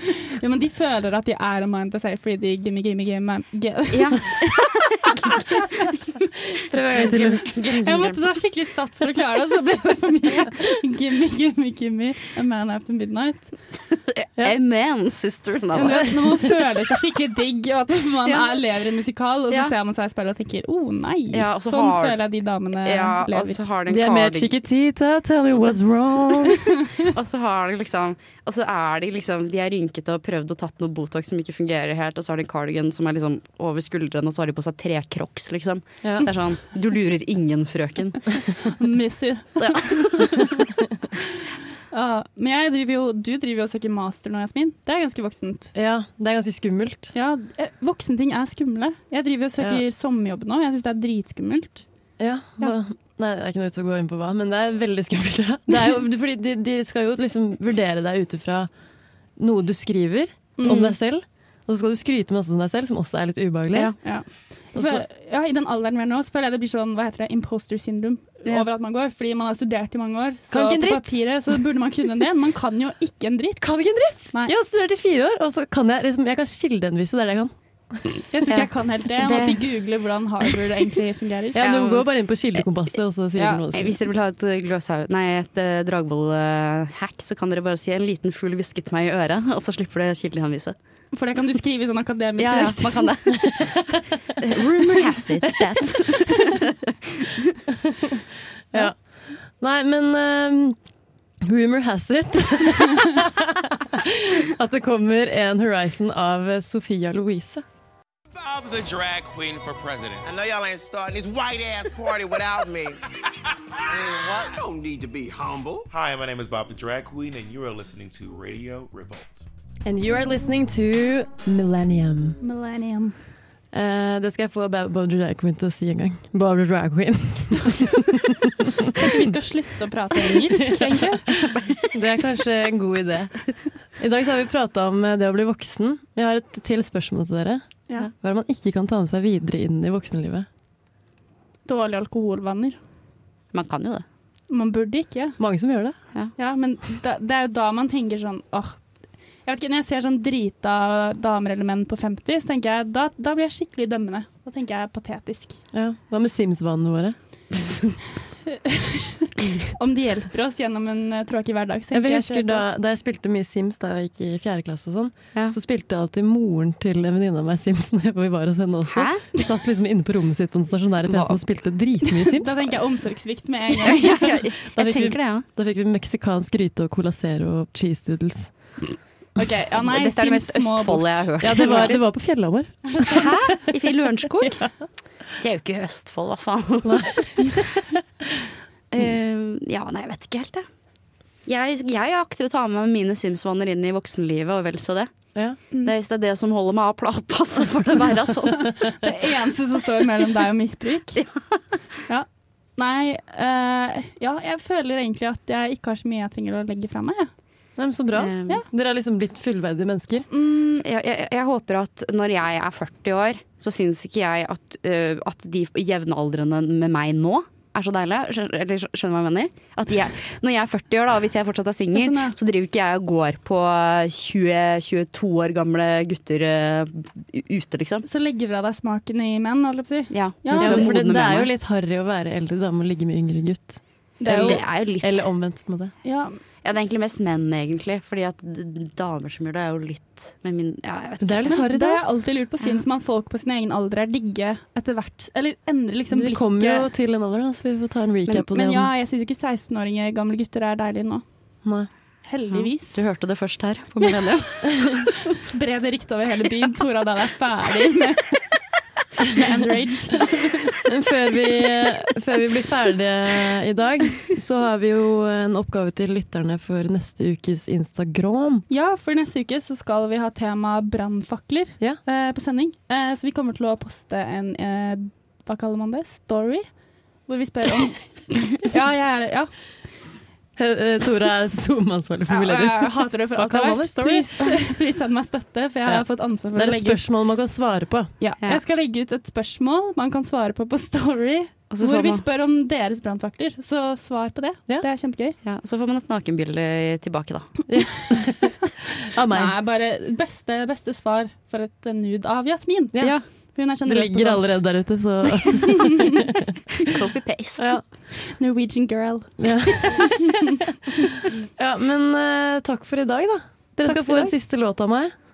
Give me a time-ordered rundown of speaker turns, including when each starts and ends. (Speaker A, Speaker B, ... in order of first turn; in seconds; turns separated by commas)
Speaker A: 0.2-4.4, Speaker B: 3.9-6.1, Speaker C: 6.5-7.9, Speaker B: 6.9-8.2, Speaker A: 7.5-13.6, Speaker B: 14.4-16.1, Speaker A: 15.7-23.6, Speaker B: 21.3-22.2, Speaker B: 22.8-24.5, Speaker C: 23.9-26.6, Speaker B: 27.0-38.4, Speaker C: 36.0-36.3, Speaker A: 38.6-40.3, Speaker B: 39.6-40.5, Speaker A: 41.9-45.7, Speaker C: 45.7-47.1, Speaker A: 47.1-51.8, Speaker C: 52.2-58.7, Speaker C: 59.4-63.9, Speaker A: 60.6-60.8, Speaker B: 60.6-60.9, Speaker A: 64.0-73.7, Speaker C: 64.7-65.0, Speaker C: 70.5-71.2, Speaker C: 73.6-78.0, Speaker A: 78.3-81.6, Speaker B: 78.5-79.7, Speaker C: 81.5-84.0, Speaker B: 81.6-82.1, Speaker B: 83.7-90.7, Speaker A: 91.1-93.1, Speaker B: 92.4-93.8, Speaker C: 93.3-93.9, Speaker B: 94.4-97.5, Speaker C: 94.7-96.0, Speaker C: 99.6-100.8, Speaker C: 101.4-107.6, Speaker D: 108.3-113.0, Speaker D: 113.8-119.5, Speaker C: 119.8-122.4, Speaker A: 122.4-123.1, Speaker C: 123.7-129.2, Speaker A: 128.9-131.2, Speaker B: 131.4-132.0, Speaker C: 131.9-133.4, Speaker C: 134.0-140.5, Speaker A: 141.7-142.8, Speaker B: 143.5-144.0, Speaker A: 144.5-145.4, Speaker C: 145.4-145.9, Speaker A: 146.4-148.8, Speaker A: 149.4-155.6, Speaker C: 155.7-157.2, Speaker A: 158.5-162.7, Speaker C: 161.9-172.5, Speaker B: 168.9-169.2, Speaker B: 171.1-171.4, Speaker A: 172.1-174.1, Speaker B: 173.8-175.4, Speaker C: 174.7-178.5, Speaker A: 179.4-181.9, Speaker B: 179.8-182.0, Speaker C: 181.4-183.2, Speaker A: 182.9-183.3, Speaker B: 183.0-184.7, Speaker B: 185.4-187.4, Speaker C: 186.8-187.7, Speaker B: 188.9-190.7, Speaker B: 191.5-195.1, Speaker B: 195.8-198.7, Speaker A: 198.5-201.2, Speaker A: 202.1-207.3, Speaker C: 207.8-210.3, Speaker B: 208.2-208.6, Speaker A: 210.3-210.8, Speaker B: 210.8-228.0, Speaker A: 221.9-222.3, Speaker A: 228.0-230.9, Speaker B: 230.1-231.5, Speaker C: 230.6-235.9, Speaker A: 234.2-234.6, Speaker B: 234.2-235.3, Speaker A: 236.0-236.4, Speaker B: 236.6-241.6, Speaker C: 241.2-242.0, Speaker A: 241.5-246.9, Speaker C: 246.1-248.9, Speaker A: 248.5-251.2, Speaker C: 251.6-251.9, Speaker A: 252.2-253.0, Speaker B: 252.5-254.9, Speaker C: 254.7-255.0, Speaker A: 255.3-258.6, Speaker A: 259.2-260.8, Speaker C: 260.9-268.6, Speaker A: 268.7-276.7, Speaker A: 277.2-279.5, Speaker C: 280.6-284.5, Speaker A: 282.3-287.0, Speaker C: 285.8-288.1, Speaker A: 288.2-295.4, Speaker B: 291.7-292.2, Speaker B: 295.4-297.6, Speaker C: 297.7-299.6, Speaker A: 299.3-304.7, Speaker B: 303.0-303.2, Speaker C: 303.8-306.2, Speaker A: 305.5-306.1, Speaker B: 306.8-307.7, Speaker C: 307.6-307.8, Speaker A: 308.2-310.6, Speaker C: 309.4-310.6, Speaker C: 311.6-315.1, Speaker A: 313.8-314.3